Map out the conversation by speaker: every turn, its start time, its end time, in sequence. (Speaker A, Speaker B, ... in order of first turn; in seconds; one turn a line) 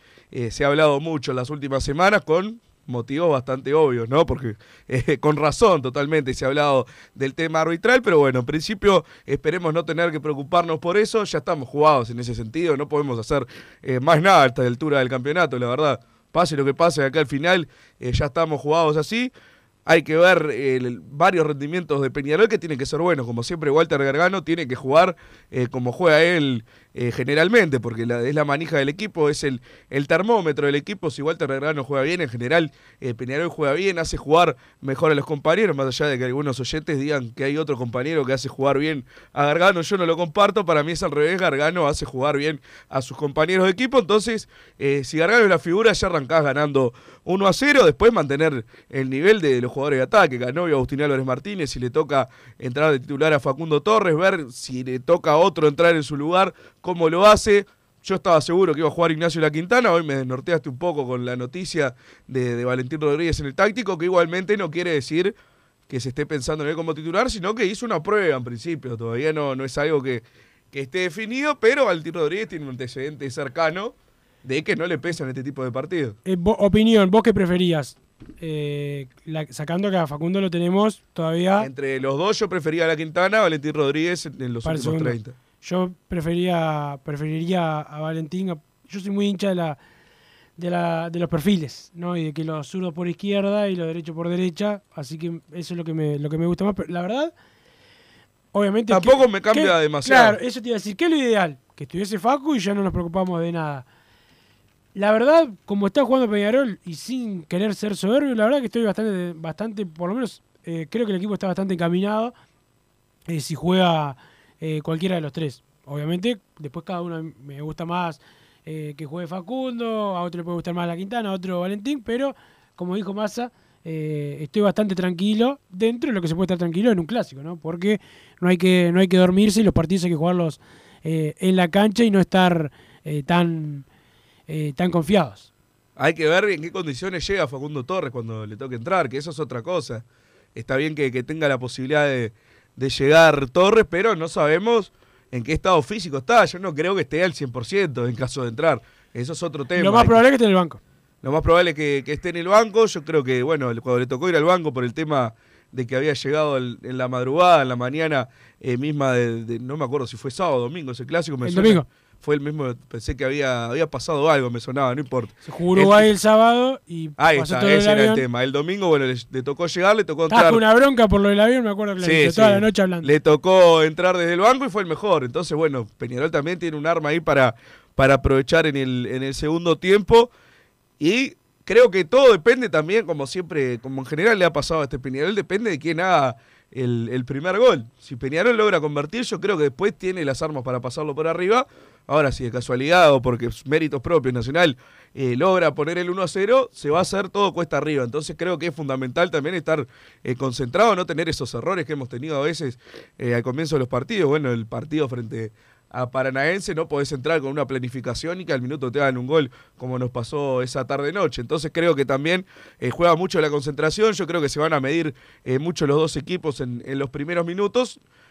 Speaker A: 0.3-19.3
Speaker A: 19.9-65.3
Speaker A: 65.9-76.2
Speaker B: 76.2-81.7
Speaker A: 81.6-85.3
Speaker B: 84.6-89.8
Speaker B: 90.6-97.3
Speaker B: 98.5-103.8
Speaker A: 98.9-100.4
Speaker B: 104.9-112.3
Speaker B: 113.3-133.8
Speaker B: 134.5-135.5
Speaker A: 136.0-140.0
Speaker A: 140.5-150.2
Speaker B: 149.8-150.8
Speaker A: 151.2-166.1
Speaker B: 161.4-161.8
Speaker B: 165.4-168.2
Speaker A: 167.2-170.6
Speaker B: 170.3-173.1
Speaker A: 172.0-180.3
Speaker A: 181.0-218.0